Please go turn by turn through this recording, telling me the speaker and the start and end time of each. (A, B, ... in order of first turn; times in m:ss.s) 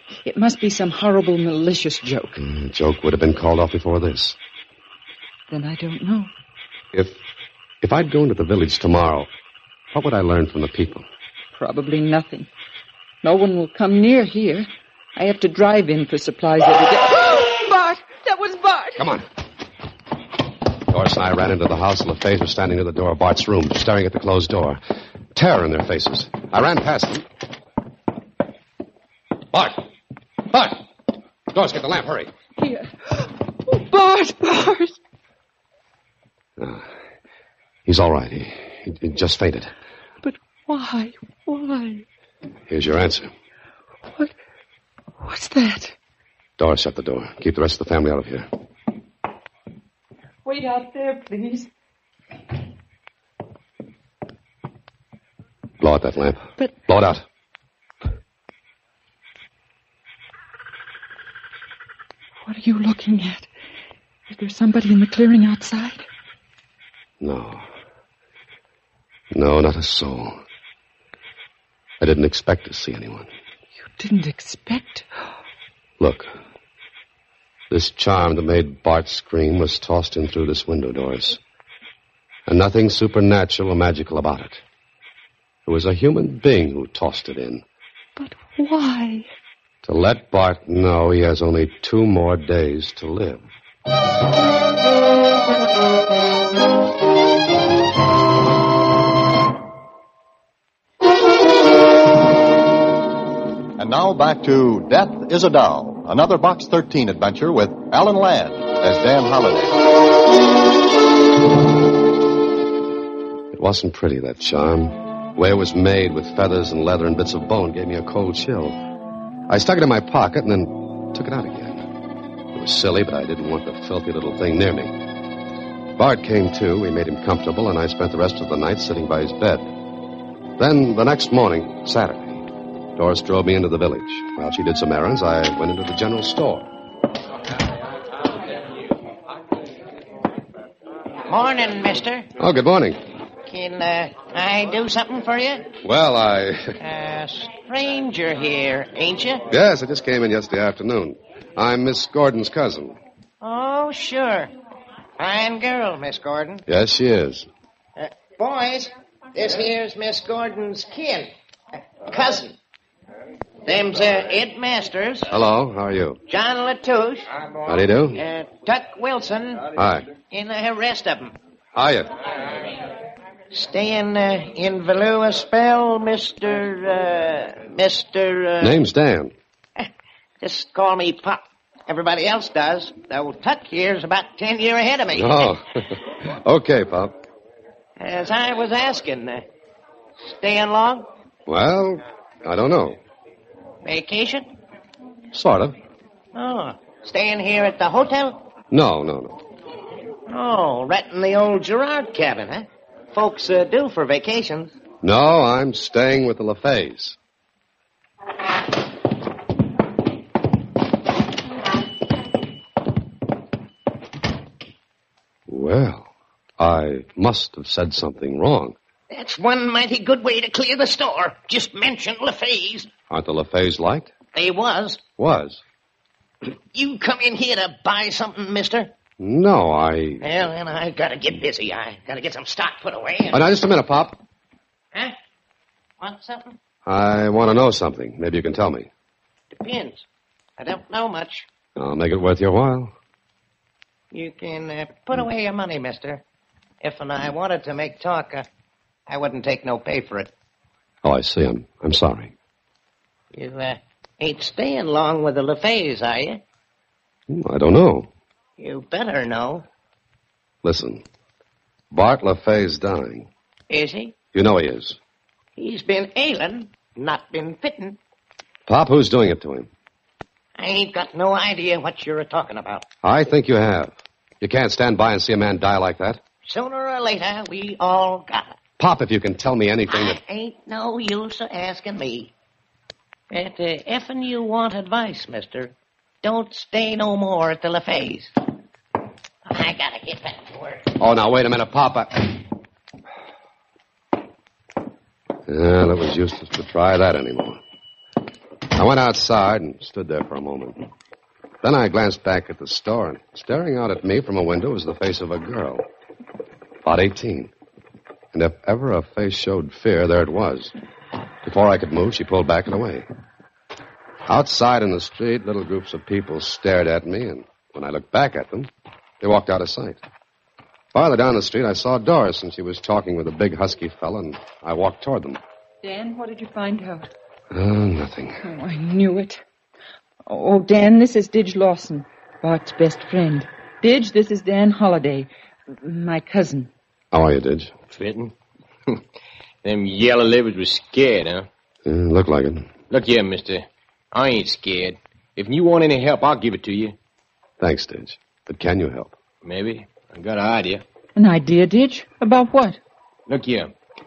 0:00.2-0:02.4 A
0:02.4-0:04.4 B
0:05.5-0:06.3 A
0:06.9-0:07.2 B
0:07.8-0:09.3 B
0:09.9-0:11.1 B
0:11.5-0:12.5 A
0:13.2-0:19.0 A
0:19.0-0:19.2 B
0:20.9-0:24.8 B
0:25.3-0:27.2 B
0:29.5-0:29.9 B
0:30.5-0:30.8 B
0:31.5-0:32.3 B
0:32.6-0:35.0 A
0:36.6-0:36.9 B
0:37.8-0:39.7 B
0:40.2-0:42.0 A
0:42.7-0:43.3 B
0:45.2-0:45.9 A
0:46.6-0:48.5 B
0:50.4-0:51.7 A
0:55.8-0:57.2 B
1:02.4-1:03.5 A
1:04.3-1:06.1 A
1:07.2-1:07.6 B
1:09.3-1:10.4 B
1:12.0-1:13.3 B
1:13.8-1:15.1 A
1:16.0-1:16.3 B
1:17.7-1:21.4 B
1:22.5-1:24.6 B
1:25.6-1:27.6 B
1:28.2-1:29.3 A
1:29.8-1:33.4 B
1:43.8-1:49.8 C
1:53.5-1:58.8 B
1:59.5-2:01.8 B
2:02.5-2:04.9 B
2:06.0-2:09.7 B
2:10.6-2:16.7 B
2:21.3-2:22.3 D
2:22.4-2:23.0 B
2:23.5-2:25.7 D
2:25.8-2:26.8 B
2:26.8-2:29.4 D
2:29.5-2:33.0 B
2:33.4-2:34.5 D
2:35.2-2:36.6 D
2:36.7-2:37.5 B
2:38.0-2:41.3 D
2:42.1-2:42.6 D
2:43.6-2:45.3 D
2:45.3-2:46.2 B
2:46.3-2:47.3 D
2:47.6-2:48.2 B
2:48.1-2:51.3 D
2:49.7-2:50.1 B
2:51.7-2:52.1 B
2:53.5-2:58.8 D
2:58.6-2:59.3 B
3:00.4-3:05.5 D
3:05.1-3:07.2 B
3:08.0-3:09.4 D
3:10.2-3:11.1 D
3:11.5-3:13.0 B
3:13.8-3:14.5 D
3:15.3-3:15.8 B
3:16.3-3:18.5 D
3:18.7-3:19.4 B
3:20.3-3:24.8 D
3:25.0-3:27.2 B
3:35.5-3:38.8 B
3:39.1-3:42.9 D
3:43.1-3:44.1 B
3:44.3-3:45.0 D
3:45.2-3:45.6 B
3:46.7-3:48.9 D
3:49.2-3:50.4 B
3:50.2-3:53.4 D
3:53.3-3:54.2 B
3:56.0-3:56.6 D
3:56.8-3:58.9 B
3:59.5-4:00.0 D
4:00.6-4:01.5 D
4:01.8-4:02.9 B
4:04.1-4:06.2 D
4:06.8-4:08.5 D
4:09.1-4:10.3 D
4:11.0-4:12.3 B
4:13.3-4:16.4 D
4:17.3-4:18.1 B
4:18.6-4:19.6 D
4:20.6-4:21.0 B
4:21.9-4:23.3 B
4:23.7-4:24.2 D
4:24.3-4:25.0 B
4:25.6-4:28.0 D
4:28.7-4:29.7 B
4:30.6-4:32.8 D
4:33.0-4:36.2 B
4:36.4-4:38.6 D
4:38.8-4:40.2 B
4:39.9-4:42.3 D
4:43.3-4:48.3 D
4:49.4-4:50.9 D
4:51.0-4:52.4 B
4:55.5-4:57.6 B
4:58.7-5:00.8 B
5:01.6-5:05.8 B
5:06.8-5:07.5 B
5:08.3-5:10.7 B
5:11.4-5:13.1 B
5:14.2-5:18.7 B
5:19.2-5:20.0 B
5:20.9-5:25.4 B
5:25.8-5:27.1 A
5:27.5-5:28.4 B
5:28.4-5:29.4 A
5:30.2-5:36.7 A
5:37.1-5:37.7 B
5:37.9-5:38.3 E
5:39.6-5:41.5 E
5:41.8-5:42.7 B
5:42.9-5:47.0 E
5:47.6-5:49.1 B
5:49.4-5:50.8 E
5:51.2-5:52.8 A
5:53.3-5:53.7 E